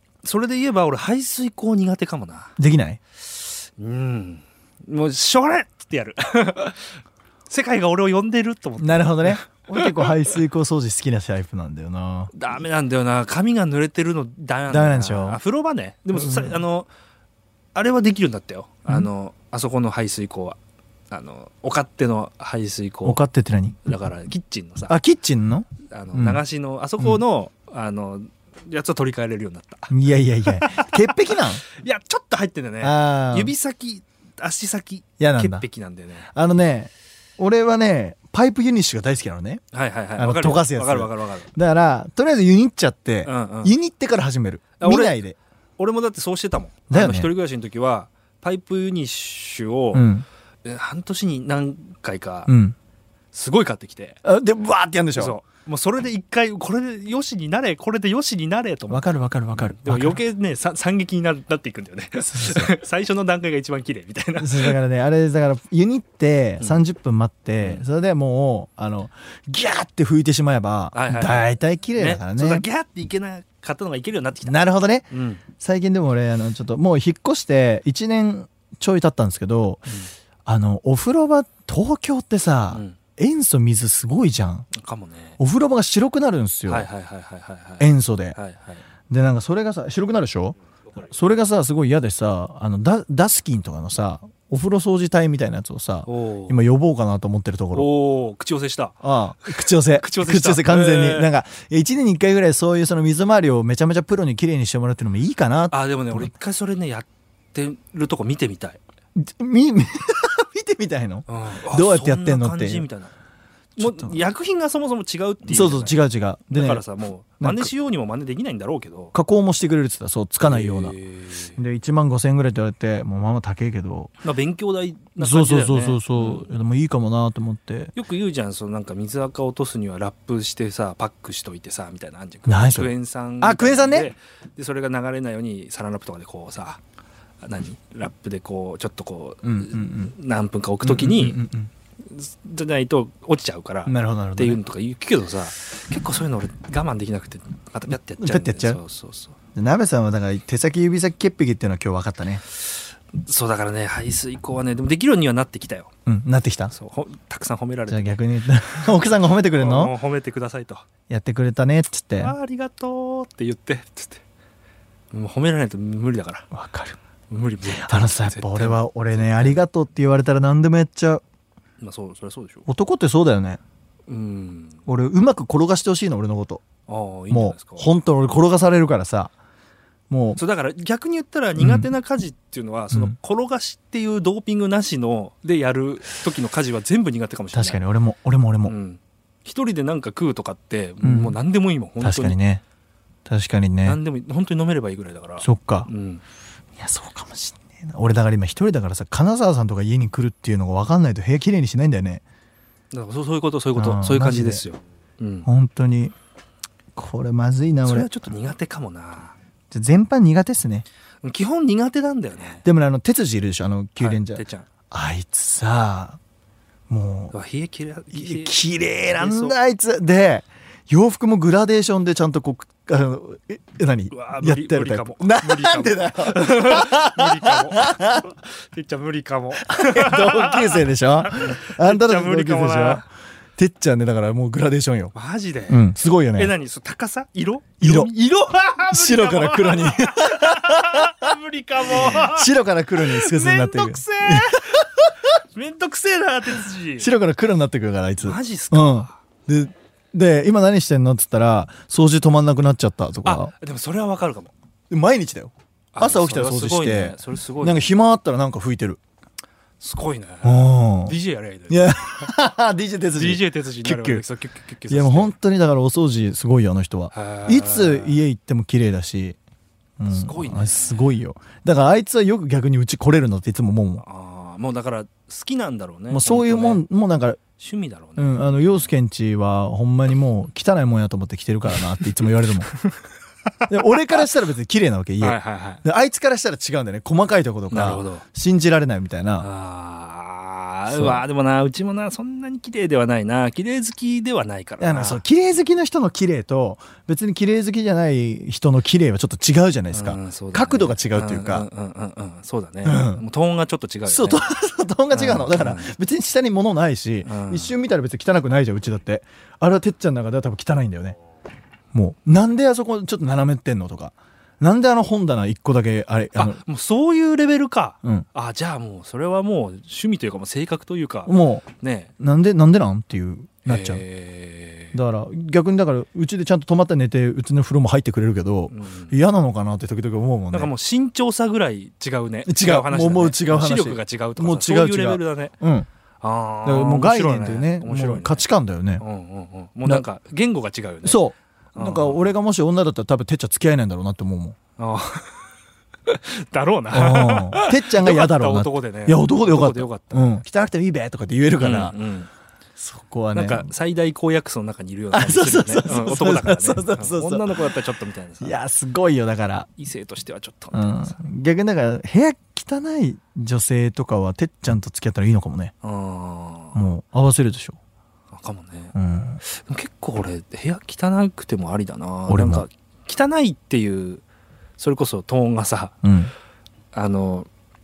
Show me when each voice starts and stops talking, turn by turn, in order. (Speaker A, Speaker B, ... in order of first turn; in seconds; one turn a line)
Speaker A: 0.2-2.5
Speaker B: 2.6-3.0
Speaker A: 3.3-10.1
Speaker B: 8.8-12.4
Speaker A: 12.3-16.9
Speaker B: 14.7-15.4
Speaker B: 16.1-16.6
Speaker A: 17.7-20.6
Speaker A: 21.1-23.2
Speaker B: 23.0-23.8
Speaker A: 23.8-25.0
Speaker B: 24.9-26.4
Speaker A: 25.9-29.9
Speaker B: 29.9-31.6
Speaker A: 30.5-36.3
Speaker B: 32.8-33.5
Speaker B: 35.2-35.7
Speaker B: 36.3-39.6
Speaker A: 39.7-41.5
Speaker B: 40.2-45.4
Speaker A: 43.2-43.8
Speaker A: 44.8-45.2
Speaker A: 45.8-50.1
Speaker B: 46.9-47.3
Speaker B: 49.9-50.3
Speaker A: 50.6-52.5
Speaker B: 52.5-52.8
Speaker A: 53.3-54.2
Speaker B: 54.2-55.4
Speaker A: 55.2-59.0
Speaker B: 58.9-60.2
Speaker A: 59.6-64.8
Speaker B: 62.2-62.8
Speaker B: 64.4-72.7
Speaker A: 70.9-75.4
Speaker B: 74.4-79.9
Speaker B: 80.5-84.7
Speaker A: 82.7-83.0
Speaker A: 84.7-85.4
Speaker B: 85.4-86.9
Speaker A: 86.7-88.8
Speaker B: 87.8-88.4
Speaker B: 89.1-97.9
Speaker A: 96.1-96.6
Speaker A: 97.7-101.3
Speaker B: 99.0-106.4
Speaker A: 105.7-108.8
Speaker B: 109.2-112.9
Speaker A: 111.3-113.1
Speaker B: 113.8-114.2
Speaker A: 113.8-119.1
Speaker B: 115.5-116.8
Speaker B: 117.4-117.7
Speaker B: 119.1-121.0
Speaker A: 120.4-121.6
Speaker B: 121.6-124.1
Speaker A: 124.2-126.5
Speaker B: 125.2-128.0
Speaker A: 128.0-136.8
Speaker B: 132.5-134.1
Speaker A: 137.4-141.4
Speaker B: 139.4-140.1
Speaker B: 140.8-141.7
Speaker A: 142.1-149.3
Speaker B: 143.9-144.6
Speaker B: 147.9-148.8
Speaker B: 149.6-152.4
Speaker A: 152.6-155.9
Speaker B: 156.1-156.7
Speaker A: 156.7-158.2
Speaker B: 157.9-159.9
Speaker A: 159.5-160.8
Speaker B: 161.1-162.3
Speaker A: 162.2-164.2
Speaker A: 165.1-166.5
Speaker B: 166.5-167.0
Speaker A: 167.3-169.6
Speaker B: 167.7-171.2
Speaker A: 171.8-172.7
Speaker B: 172.7-173.6
Speaker A: 174.1-174.8
Speaker B: 174.9-176.6
Speaker A: 176.9-177.9
Speaker B: 177.3-179.3
Speaker B: 180.1-180.4
Speaker A: 180.4-187.8
Speaker B: 181.6-181.9
Speaker B: 182.9-183.2
Speaker B: 187.5-188.7
Speaker A: 188.7-192.4
Speaker B: 191.0-191.4
Speaker B: 192.0-192.6
Speaker B: 193.3-194.0
Speaker A: 193.8-196.2
Speaker B: 195.4-195.9
Speaker B: 196.8-202.2
Speaker A: 202.9-205.5
Speaker B: 203.8-204.7
Speaker B: 205.4-206.1
Speaker B: 207.0-208.1
Speaker A: 207.8-209.3
Speaker B: 209.7-210.9
Speaker A: 211.2-212.7
Speaker B: 212.6-216.2
Speaker A: 214.0-214.7
Speaker B: 216.9-217.4
Speaker A: 217.3-219.6
Speaker B: 218.1-228.2
Speaker A: 224.1-233.0
Speaker B: 229.6-235.1
Speaker A: 235.1-247.1
Speaker B: 235.7-236.6
Speaker B: 237.8-238.1
Speaker B: 238.8-241.3
Speaker B: 241.9-245.1
Speaker B: 246.9-253.5
Speaker A: 248.2-249.2
Speaker A: 253.2-254.5
Speaker B: 254.9-259.0
Speaker A: 255.9-257.9
Speaker A: 259.8-262.3
Speaker B: 260.4-261.2
Speaker B: 261.7-264.3
Speaker A: 263.1-265.3
Speaker B: 264.9-269.4
Speaker A: 267.1-268.2
Speaker B: 270.0-274.0
Speaker A: 270.1-271.1
Speaker A: 274.0-276.8
Speaker B: 276.1-277.4
Speaker A: 277.6-278.6
Speaker B: 278.2-282.7
Speaker A: 281.7-282.9
Speaker A: 283.5-283.9
Speaker B: 283.7-289.5
Speaker A: 285.2-285.8
Speaker A: 287.7-288.2
Speaker A: 289.4-295.2
Speaker B: 290.9-291.2
Speaker B: 294.8-301.7
Speaker A: 299.9-304.4
Speaker B: 302.8-303.2
Speaker B: 304.1-311.2
Speaker A: 305.1-305.9
Speaker A: 307.2-307.8
Speaker B: 311.9-316.6
Speaker A: 316.4-322.1
Speaker B: 321.3-321.7
Speaker B: 322.2-324.0
Speaker A: 323.7-325.0
Speaker B: 324.9-330.7
Speaker A: 328.7-329.2
Speaker A: 330.5-335.6
Speaker B: 332.4-335.9
Speaker A: 336.2-338.5
Speaker B: 336.6-339.0
Speaker A: 339.0-342.3
Speaker B: 341.0-344.6
Speaker A: 344.8-345.5
Speaker A: 346.1-350.4
Speaker B: 346.9-352.0
Speaker A: 351.6-352.3
Speaker B: 352.8-353.7
Speaker A: 353.3-358.6
Speaker B: 355.1-357.8
Speaker B: 358.4-359.7
Speaker A: 359.8-361.1
Speaker B: 360.7-365.7
Speaker A: 365.8-366.8
Speaker B: 366.7-367.8
Speaker A: 368.3-374.2
Speaker B: 368.9-369.4
Speaker B: 372.3-372.7
Speaker A: 374.8-375.9
Speaker B: 376.0-376.3
Speaker A: 376.9-377.5